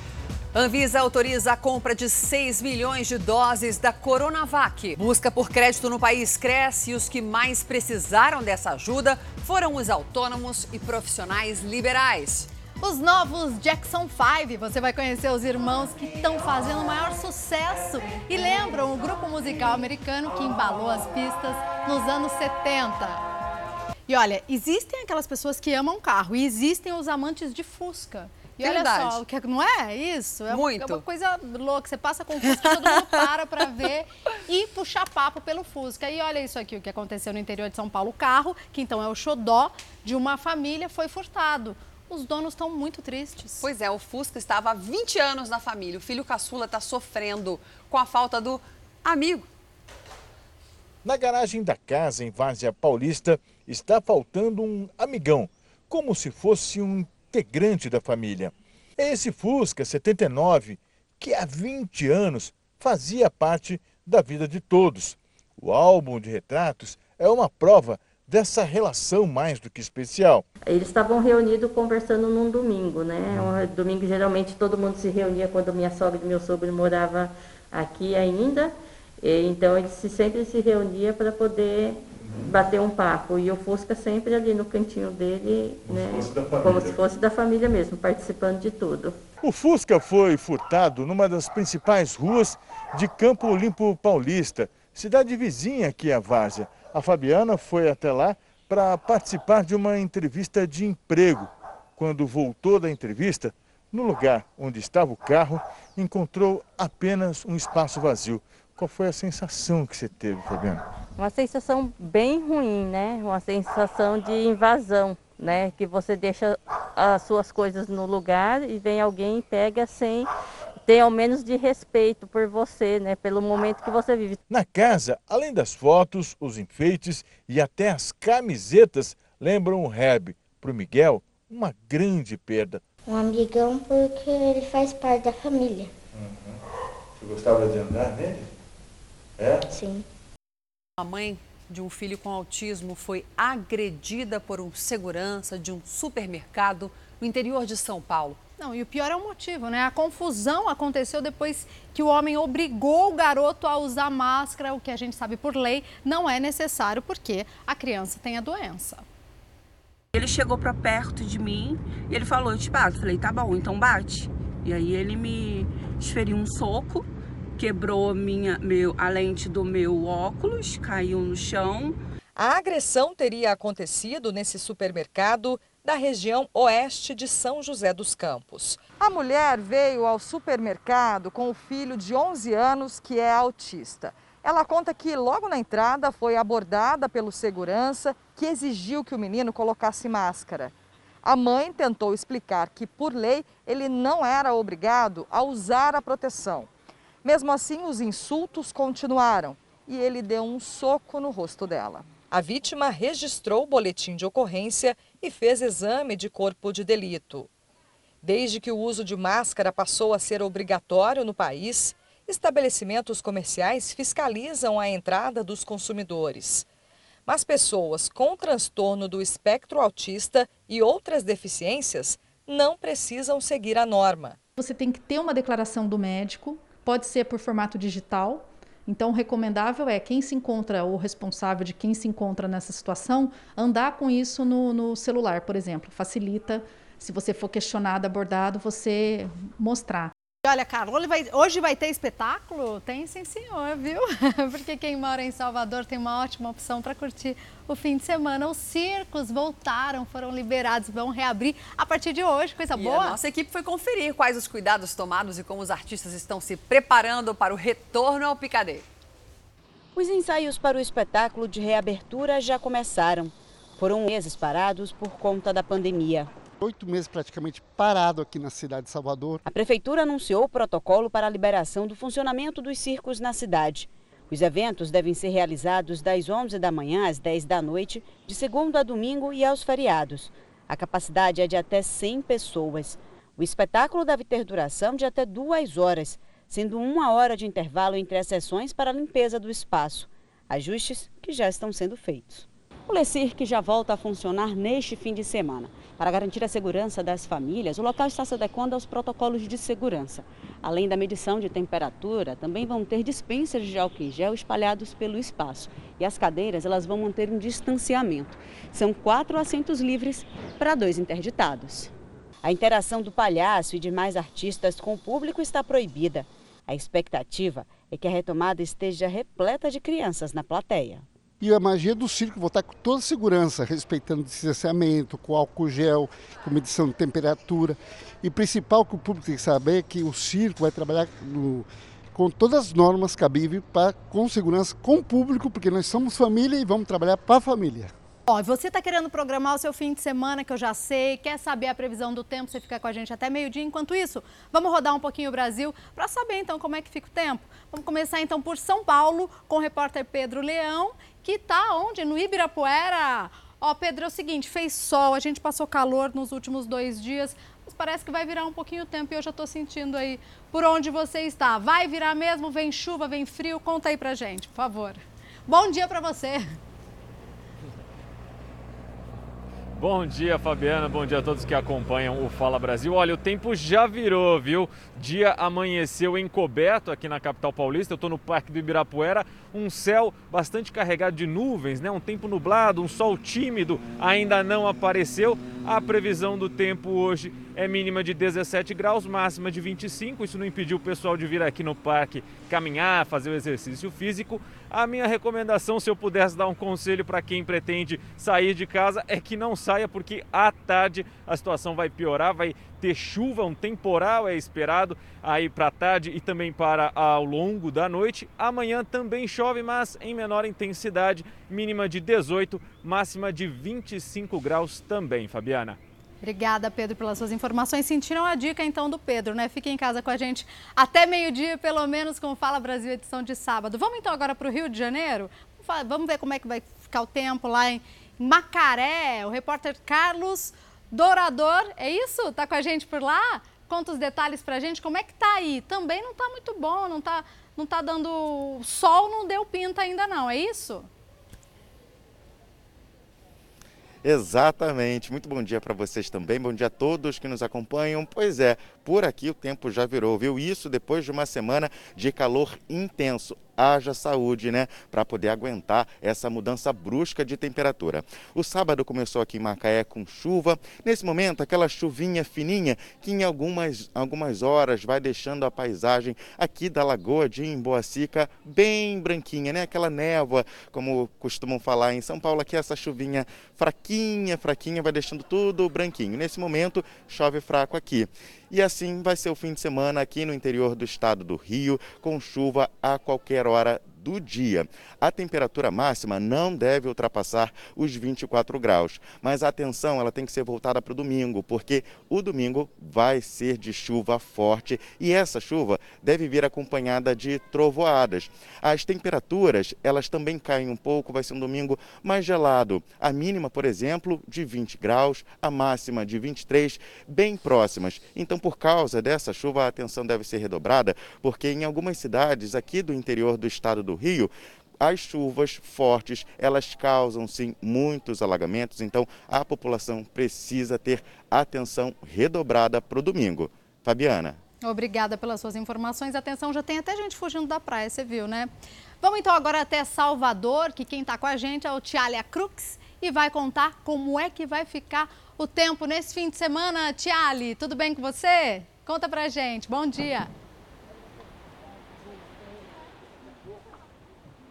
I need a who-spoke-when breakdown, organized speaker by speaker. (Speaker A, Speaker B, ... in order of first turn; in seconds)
Speaker A: 0.5-12.5, 28.6-29.2, 30.5-31.0, 43.6-49.5, 141.0-148.4, 252.8-258.8
Speaker B: 12.8-23.2, 24.1-43.7, 148.6-159.0, 240.4-253.2, 338.3-366.6, 416.2-440.9, 524.6-540.3
Speaker C: 51.0-70.5, 85.9-87.0, 89.4-110.8, 124.5-132.8, 136.1-136.6, 137.2-138.5, 139.4-139.7
Speaker D: 70.7-89.2, 111.2-120.3, 120.8-124.4
Speaker E: 133.1-135.9, 139.7-140.1
Speaker F: 160.1-167.1, 167.6-172.0
Speaker G: 172.4-190.7, 191.2-196.7, 197.2-207.5, 208.2-216.7, 217.3-224.4
Speaker H: 224.6-240.1
Speaker I: 259.9-266.3, 269.5-311.9, 312.4-321.1
Speaker J: 266.6-269.4, 321.4-337.9
Speaker K: 369.8-415.8
Speaker L: 444.0-524.4